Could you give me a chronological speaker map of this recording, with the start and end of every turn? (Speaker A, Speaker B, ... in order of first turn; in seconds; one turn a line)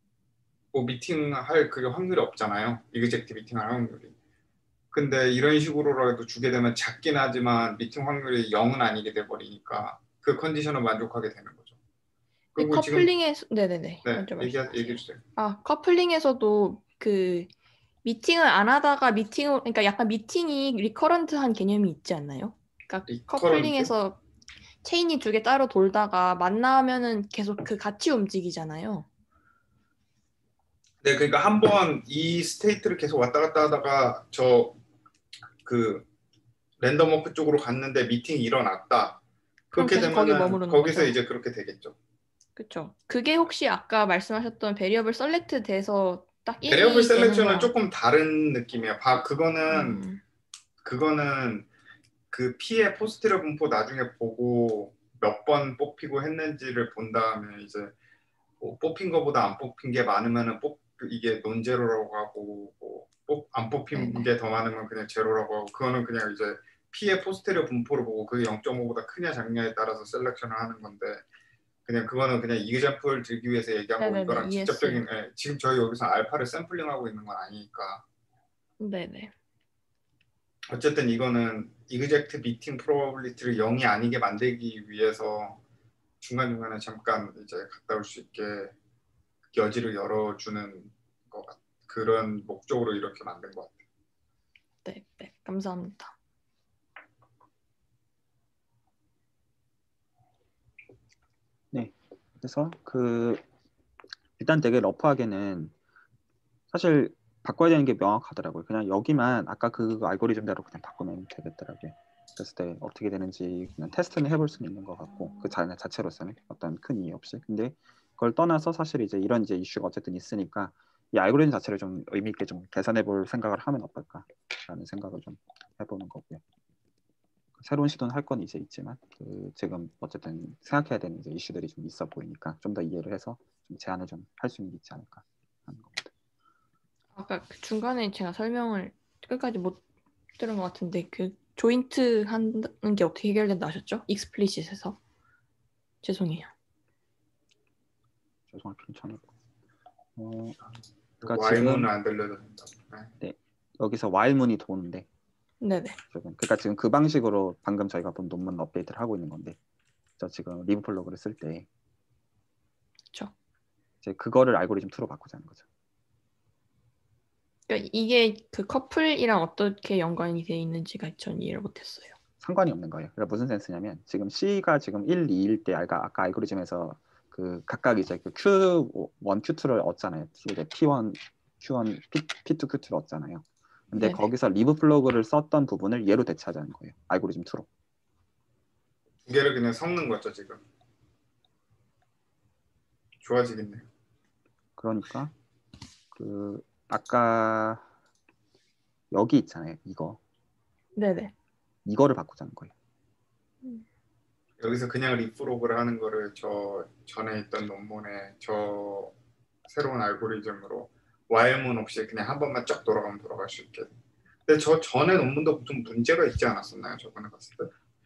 Speaker A: 0.7-4.1
Speaker A: 4.9-11.8
Speaker A: 12.6-13.1
Speaker B: 12.6-17.5
Speaker A: 14.1-15.2
Speaker B: 18.0-24.2
Speaker A: 23.1-23.9
Speaker B: 24.8-29.1
Speaker A: 31.0-34.8
Speaker A: 35.6-36.1
Speaker A: 36.8-39.2
Speaker A: 39.7-42.0
Speaker B: 39.8-41.2
Speaker B: 42.6-47.7
Speaker A: 46.7-50.0
Speaker B: 49.7-50.2
Speaker A: 50.8-51.7
Speaker A: 52.3-57.9
Speaker A: 58.6-71.2
Speaker B: 63.9-64.3
Speaker A: 71.9-78.0
Speaker B: 74.0-75.0
Speaker B: 78.8-79.3
Speaker A: 80.7-85.6
Speaker A: 86.2-88.7
Speaker A: 89.5-93.8
Speaker B: 94.8-96.2
Speaker C: 101.7-103.4
Speaker C: 104.4-105.7
Speaker C: 106.7-126.4
Speaker C: 127.6-136.1
Speaker B: 137.2-139.8
Speaker B: 140.4-145.0
Speaker B: 146.0-146.5
Speaker C: 148.5-149.3
Speaker C: 150.2-150.6
Speaker A: 151.2-153.1
Speaker C: 151.2-151.9
Speaker C: 153.2-155.1
Speaker B: 155.6-156.0
Speaker C: 156.1-159.6
Speaker C: 160.2-161.7
Speaker C: 164.0-165.6
Speaker B: 167.7-172.2
Speaker C: 172.4-187.7
Speaker B: 183.9-184.3
Speaker A: 189.3-190.6
Speaker A: 193.2-193.9
Speaker C: 194.8-195.3
Speaker C: 196.1-197.9
Speaker C: 199.1-200.2
Speaker B: 201.0-201.3
Speaker C: 201.9-202.7
Speaker A: 204.6-209.1
Speaker A: 209.7-213.9
Speaker A: 214.5-217.7